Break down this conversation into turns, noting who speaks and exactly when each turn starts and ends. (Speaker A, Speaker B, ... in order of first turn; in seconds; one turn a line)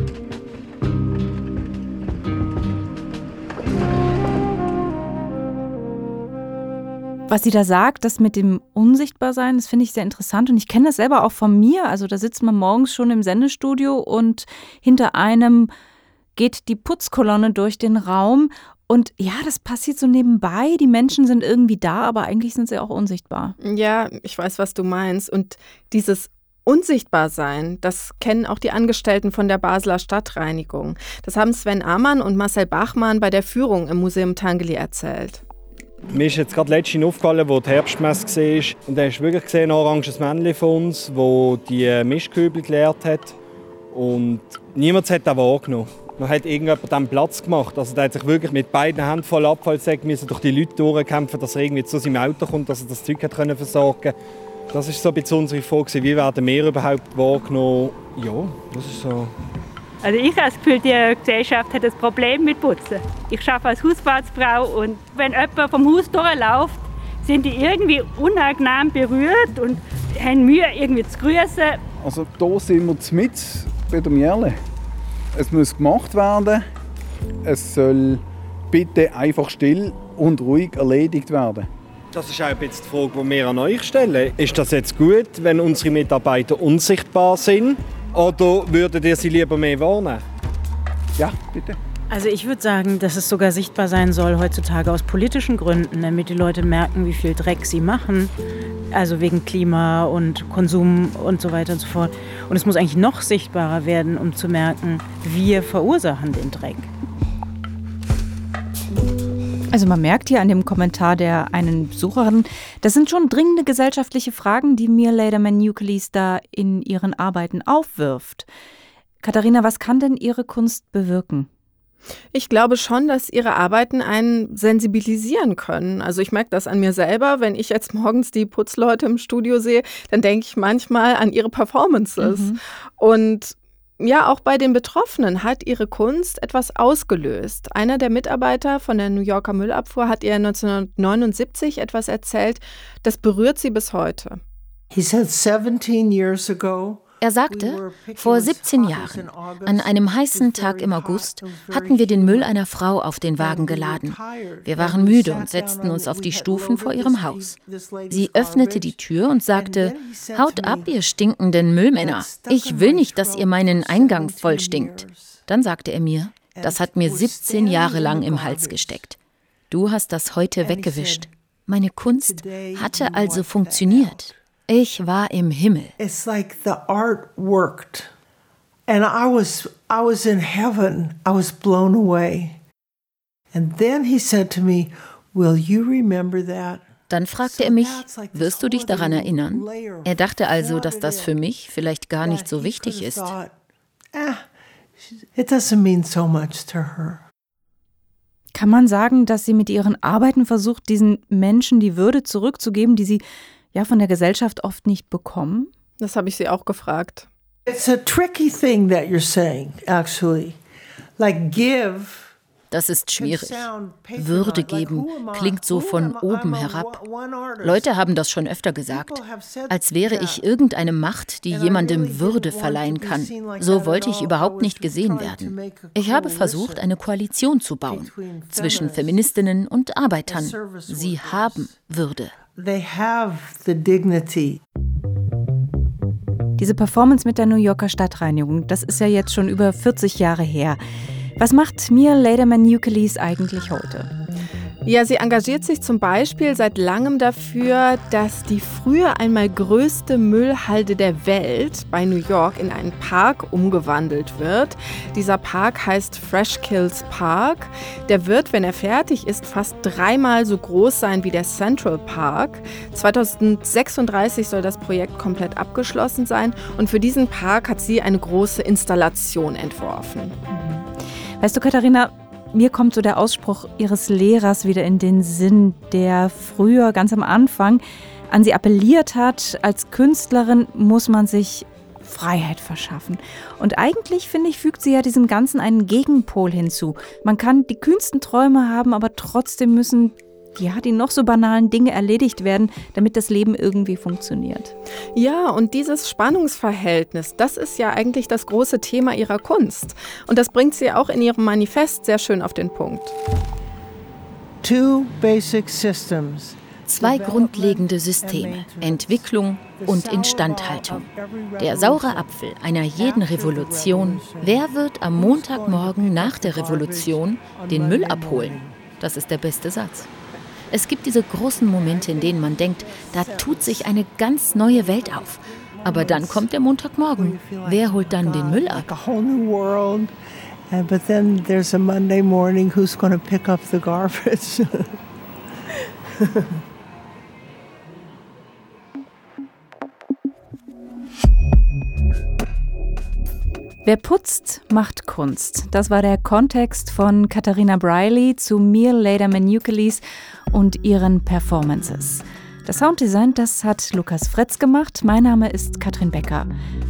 Speaker A: 7.3-15.7
Speaker A: 16.4-23.6
Speaker B: 23.6-35.4
Speaker C: 36.1-43.4
Speaker C: 43.9-54.1
Speaker C: 54.7-59.3
Speaker D: 60.0-71.8
Speaker E: 72.0-74.6
Speaker E: 75.3-76.7
Speaker E: 77.4-81.7
Speaker C: 82.1-90.2
Speaker E: 91.2-91.8
Speaker F: 92.1-98.3
Speaker F: 98.9-106.9
Speaker A: 109.7-118.5
Speaker A: 119.2-121.5
Speaker B: 122.3-144.4
Speaker A: 132.2-132.6
Speaker G: 144.9-152.6
Speaker H: 147.2-157.6
Speaker G: 153.4-160.9
Speaker H: 158.1-169.2
Speaker G: 162.0-165.4
Speaker G: 166.5-169.1
Speaker H: 169.7-175.9
Speaker G: 170.6-171.3
Speaker G: 172.2-174.4
Speaker G: 176.0-178.1
Speaker G: 178.9-182.6
Speaker G: 183.5-191.4
Speaker H: 187.1-193.3
Speaker G: 192.2-193.5
Speaker G: 194.1-194.5
Speaker G: 195.3-197.2
Speaker A: 198.6-205.7
Speaker B: 206.0-207.3
Speaker G: 207.7-210.6
Speaker G: 211.2-212.4
Speaker H: 212.7-217.0
Speaker G: 213.2-217.9
Speaker H: 217.6-232.3
Speaker G: 218.9-220.5
Speaker G: 221.5-226.9
Speaker G: 227.9-229.3
Speaker G: 230.3-231.8
Speaker G: 232.5-234.6
Speaker A: 236.6-240.8
Speaker A: 241.4-244.1
Speaker B: 244.8-270.4
Speaker A: 270.5-294.7
Speaker B: 295.1-303.1
Speaker G: 304.6-312.3
Speaker H: 306.9-311.1
Speaker H: 311.6-320.1
Speaker G: 313.0-318.8
Speaker H: 320.7-328.9
Speaker G: 321.6-324.0
Speaker G: 324.5-330.1
Speaker G: 330.7-335.0
Speaker G: 336.2-336.5
Speaker A: 343.8-356.5